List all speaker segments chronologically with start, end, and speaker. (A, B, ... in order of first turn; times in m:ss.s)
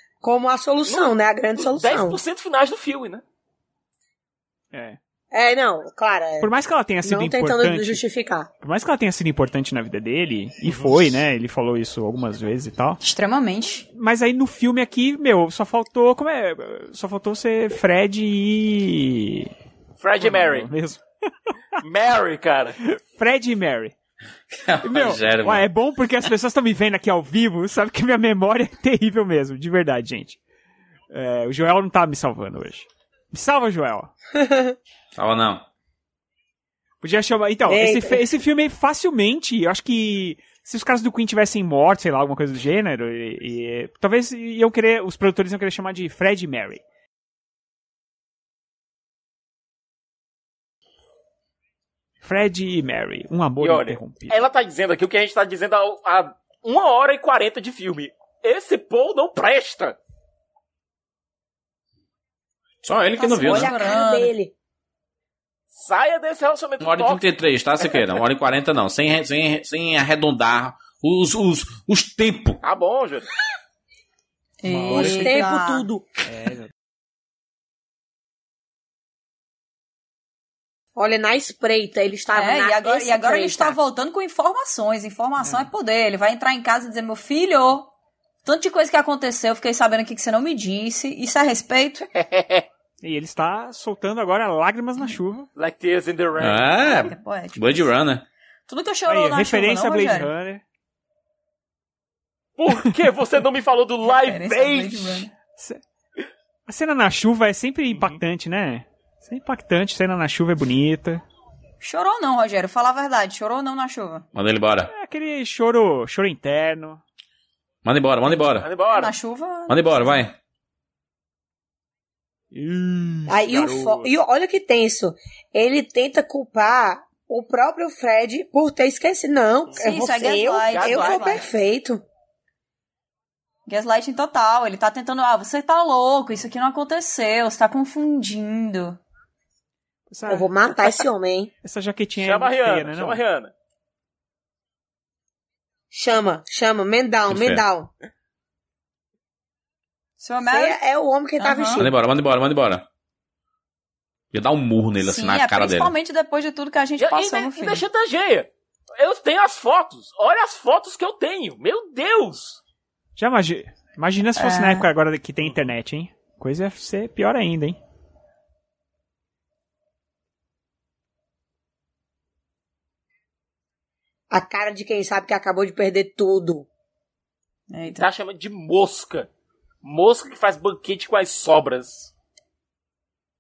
0:00.2-0:02.2 A
0:00.8-0:03.2 B
0:04.7-0:05.0 C
0:05.3-0:08.5 A
0:06.4-0:08.0 C
0:08.6-0:13.0 C
0:10.7-0:11.1 B
0:13.0-0:13.8 D
0:13.9-0:19.5 C
0:20.0-0:20.7 B
0:20.2-0:21.0 C
0:21.8-0:22.8 B
0:22.8-0:23.9 C
0:24.5-0:25.7 E
0:24.8-0:30.4 C
0:31.1-0:34.1 C
0:34.3-0:34.7 A
0:35.1-0:35.6 E
0:37.0-0:46.8 C
0:37.6-0:38.2 A
0:52.2-0:54.4 C
0:53.6-1:00.0 B
1:02.8-1:03.7 E
1:03.2-1:04.3 D
1:03.3-1:04.5 A
1:05.7-1:07.3 B
1:06.8-1:12.6 E
1:07.8-1:08.0 B
1:12.6-1:13.3 B
1:14.6-1:15.9 D
1:14.7-1:15.4 C
1:14.9-1:16.2 A
1:16.3-1:16.7 C
1:21.0-1:23.8 A
1:22.3-1:27.9 D
1:25.4-1:25.7 C
1:28.4-1:32.1 D
1:32.2-1:32.6 B
1:33.0-1:35.5 C
1:35.6-1:37.1 B
1:36.4-1:38.2 E
1:36.8-1:37.9 D
1:38.7-1:40.3 D
1:39.1-1:40.6 C
1:42.6-1:45.3 B
1:44.0-1:45.3 D
1:45.5-1:45.8 C
1:46.7-1:51.2 C
1:47.9-1:48.2 B
1:51.8-1:54.2 D
1:54.3-1:54.9 E
1:54.9-1:57.0 C
1:57.8-1:58.7 E
1:58.6-1:59.1 B
1:58.9-2:00.2 D
1:59.7-2:00.3 E
2:02.5-2:04.1 C
2:03.3-2:12.0 A
2:09.8-2:11.4 D
2:10.7-2:11.4 B
2:13.7-2:19.0 D
2:20.1-2:20.5 C
2:20.3-2:21.5 A
2:21.6-2:23.2 C
2:22.2-2:23.5 B
2:25.9-2:27.9 A
2:27.3-2:27.6 E
2:30.2-2:30.8 D
2:30.5-2:31.9 A
2:31.4-2:31.8 D
2:31.8-2:32.8 E
2:34.3-2:35.9 E
2:35.0-2:37.8 D
2:37.0-2:42.6 B
2:43.2-2:47.8 C
2:44.4-2:44.9 D
2:54.3-2:56.7 A
2:57.7-2:58.0 D
2:58.0-2:59.3 B
2:59.8-3:02.1 B